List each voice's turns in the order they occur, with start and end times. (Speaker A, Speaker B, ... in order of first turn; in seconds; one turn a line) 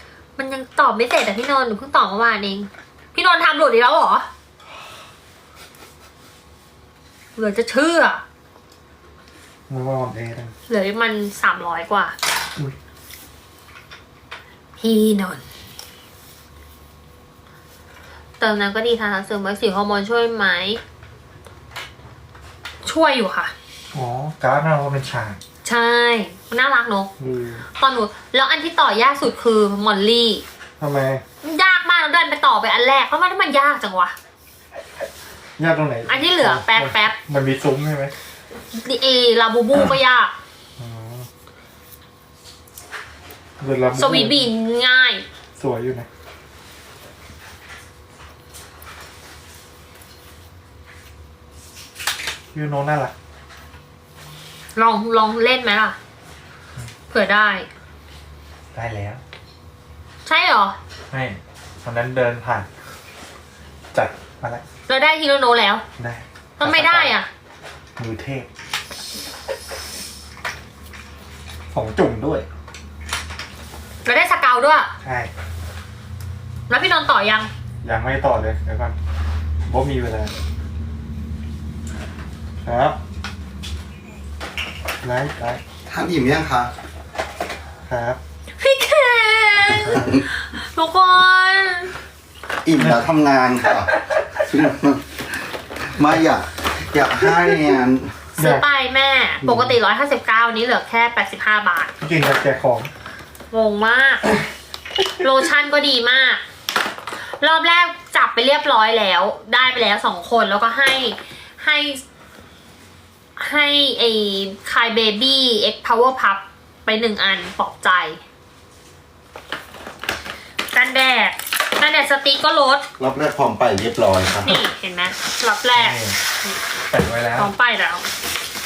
Speaker A: 0.4-4.3
Speaker A: 7.3-8.2
Speaker B: 9.7-10.5
Speaker A: 10.7-12.2
Speaker A: 14.8-15.4
Speaker A: 18.4-20.8
Speaker A: 22.8-23.5
Speaker B: 23.9-25.4
Speaker A: 25.6-27.1
Speaker B: 27.2-27.6
Speaker A: 27.8-30.4
Speaker B: 30.8-31.2
Speaker A: 31.4-34.1
Speaker B: 35.6-38.1
Speaker A: 36.1-37.1
Speaker A: 38.7-40.3
Speaker B: 40.8-41.3
Speaker B: 43.6-44.4
Speaker A: 44.0-45.2
Speaker B: 45.6-46.1
Speaker B: 52.5-53.1
Speaker A: 54.8-56.0
Speaker A: 57.1-57.7
Speaker B: 58.7-59.2
Speaker A: 60.2-60.8
Speaker B: 61.1-62.7
Speaker B: 63.9-64.6
Speaker A: 64.9-65.8
Speaker B: 66.0-67.2
Speaker A: 66.6-67.3
Speaker B: 68.0-68.5
Speaker B: 71.7-72.5
Speaker A: 74.0-74.9
Speaker B: 75.0-75.3
Speaker A: 76.7-77.5
Speaker B: 77.8-78.9
Speaker B: 79.7-80.3
Speaker B: 82.6-83.0
Speaker B: 85.0-85.6
Speaker C: 85.9-86.7
Speaker B: 87.8-88.2
Speaker A: 88.6-91.9
Speaker C: 89.9-90.2
Speaker C: 92.6-98.2
Speaker A: 98.4-101.9
Speaker B: 98.4-98.6
Speaker B: 99.4-99.7
Speaker B: 102.0-102.9
Speaker A: 103.5-104.2
Speaker A: 105.2-106.4
Speaker A: 107.3-112.0
Speaker A: 113.4-118.2
Speaker A: 120.7-122.8
Speaker C: 123.0-124.5
Speaker A: 124.4-126.0
Speaker B: 125.7-126.2
Speaker B: 126.9-127.5
Speaker A: 127.3-128.0